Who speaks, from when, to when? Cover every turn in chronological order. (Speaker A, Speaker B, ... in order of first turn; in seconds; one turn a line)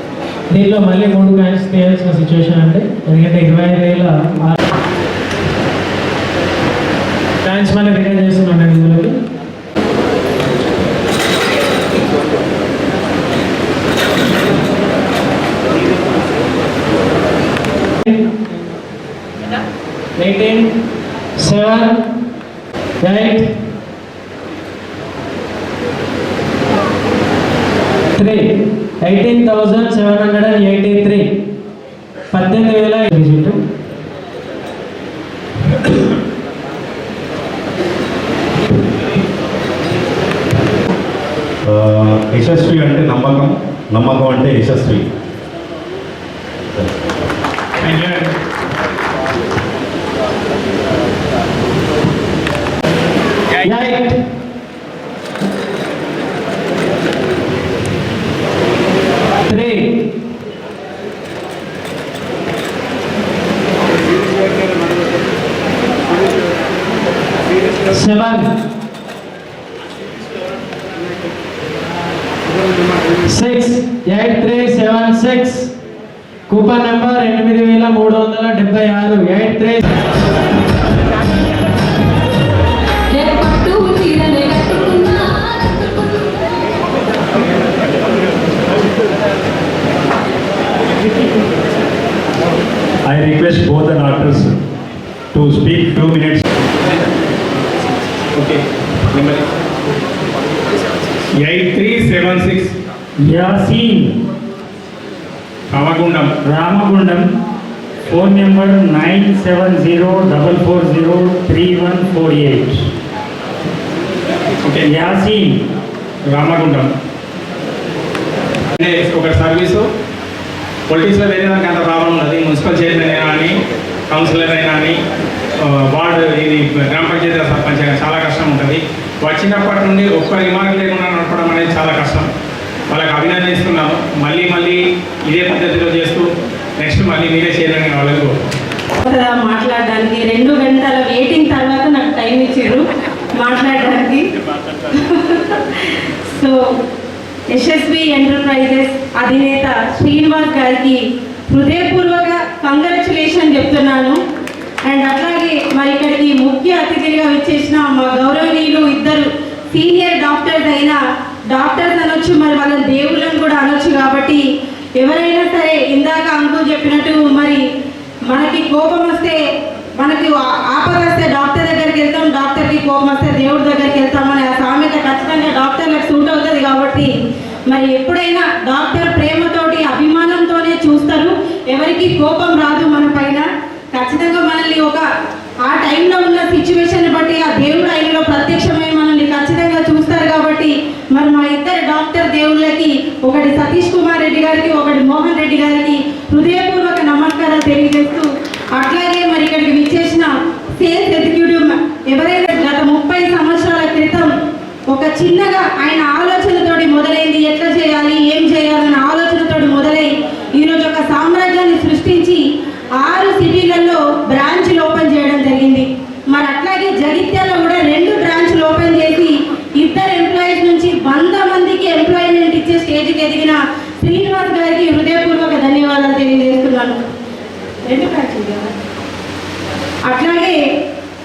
Speaker A: 0.5-4.6
Speaker A: 7.4-9.2
Speaker A: 20.2-20.7
Speaker A: 21.4-22.0
Speaker A: 23.0-23.4
Speaker A: 28.1-31.3
Speaker A: 32.3-33.6
Speaker B: 41.7-45.1
Speaker C: 47.8-48.3
Speaker A: 53.6-54.1
Speaker A: 59.5-59.9
Speaker A: 67.9-68.5
Speaker A: 73.2-75.7
Speaker A: 76.5-79.8
Speaker D: 83.1-85.8
Speaker E: 93.0-94.5
Speaker E: 95.3-96.4
Speaker C: 98.3-98.6
Speaker C: 99.1-99.5
Speaker C: 101.4-102.7
Speaker E: 103.2-104.2
Speaker C: 105.7-106.3
Speaker E: 106.4-107.3
Speaker E: 108.1-112.9
Speaker C: 114.6-114.9
Speaker E: 114.8-115.6
Speaker C: 116.3-116.9
Speaker C: 118.8-119.8
Speaker C: 120.9-123.5
Speaker C: 124.1-125.0
Speaker C: 125.6-132.3
Speaker C: 132.9-136.2
Speaker C: 136.8-138.3
Speaker D: 139.0-144.3
Speaker D: 144.9-146.6
Speaker D: 147.5-154.2
Speaker D: 154.8-161.0
Speaker D: 161.5-164.4
Speaker D: 165.0-167.6
Speaker D: 168.3-169.4
Speaker D: 170.0-177.1
Speaker D: 177.7-185.0
Speaker D: 185.7-204.3
Speaker D: 204.9-212.4
Speaker D: 213.0-227.0
Speaker D: 227.9-228.7
Speaker D: 230.1-230.6